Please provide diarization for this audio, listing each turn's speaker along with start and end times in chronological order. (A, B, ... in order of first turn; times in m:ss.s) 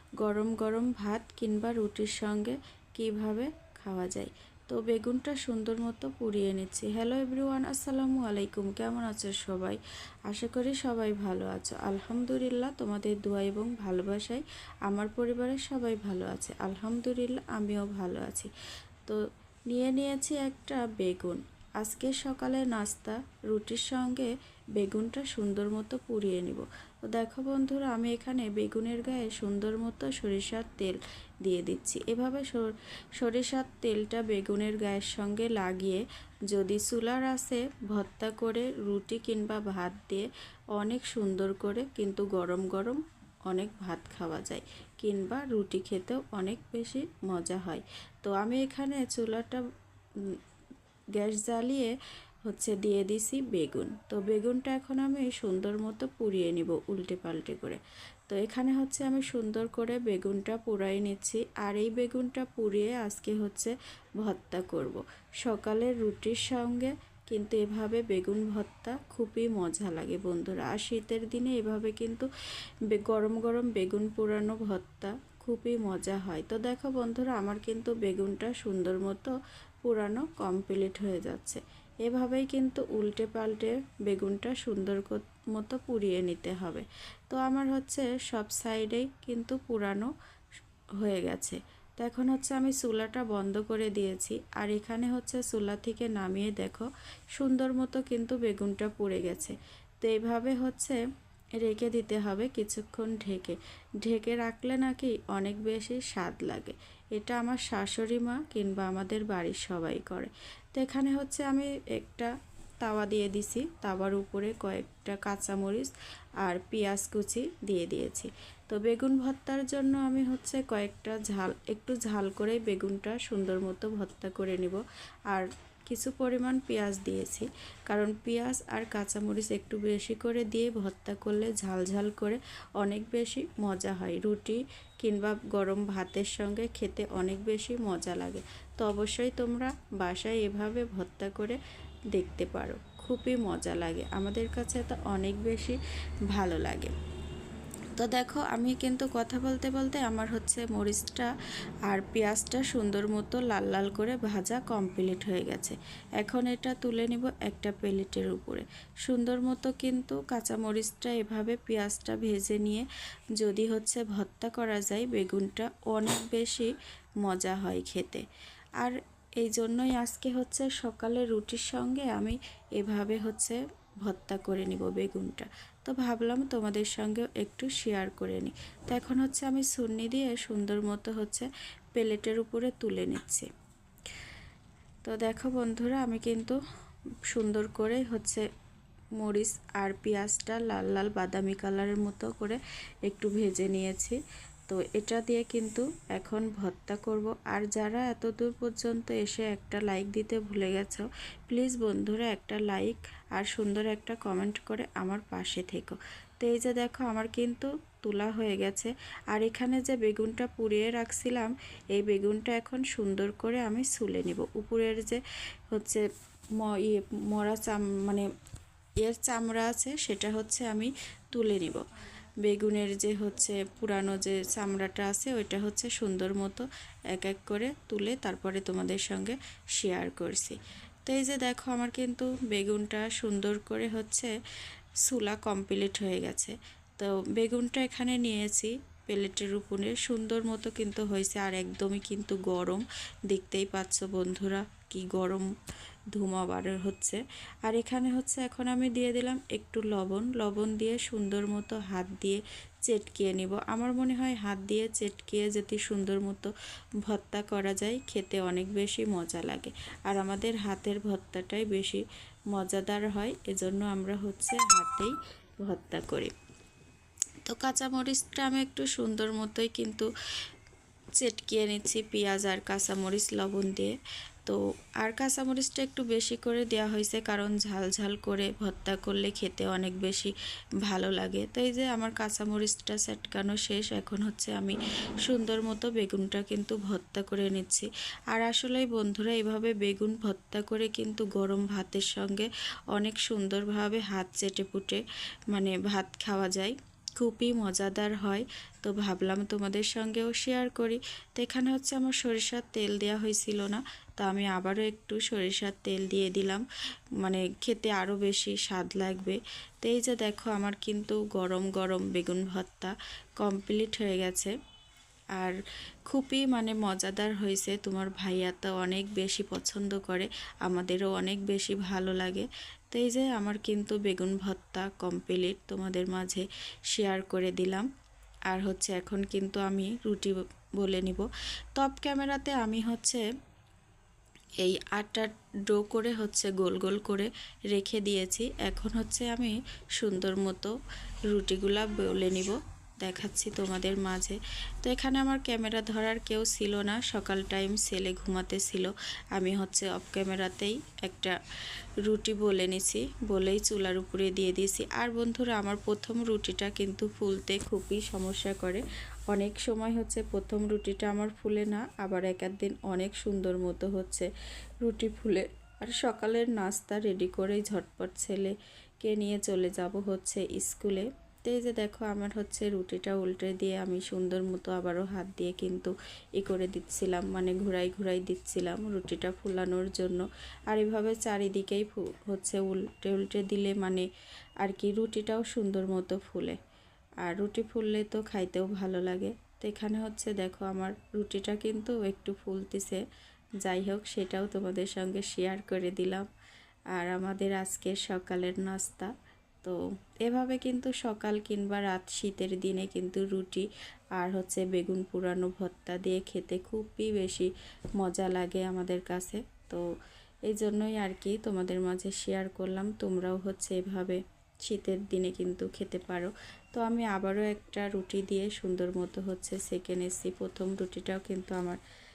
0:00.2-0:18.5 A
0:19.1-0:49.6 A
0:51.1-1:12.3 A
1:12.9-1:30.1 A
1:31.0-1:41.0 A
1:41.6-2:21.6 A
2:22.1-2:25.8 A
2:26.3-2:26.9 A
2:28.0-2:31.3 A
2:31.9-2:42.8 A
2:43.4-2:46.7 A
2:47.2-2:48.2 A
2:48.8-3:03.5 A
3:05.0-3:06.6 A
3:07.3-3:08.4 A
3:09.2-3:36.0 A
3:36.6-3:38.3 A
3:39.0-3:41.8 A
3:42.4-3:54.3 A
3:55.0-4:05.5 A
4:06.1-4:16.5 A
4:17.0-4:26.3 A
4:27.4-4:30.1 A
4:31.1-4:33.9 A
4:34.4-5:06.6 A
5:07.2-5:14.5 A
5:16.1-5:27.9 A
5:28.5-5:33.2 A
5:34.6-5:40.8 A
5:41.3-5:51.3 A
5:52.0-6:04.3 A
6:04.8-6:24.0 A
6:24.6-6:26.6 A
6:27.2-6:33.0 A
6:33.6-6:36.3 A
6:36.9-6:39.1 A
6:39.6-6:49.8 A
6:50.5-7:01.8 A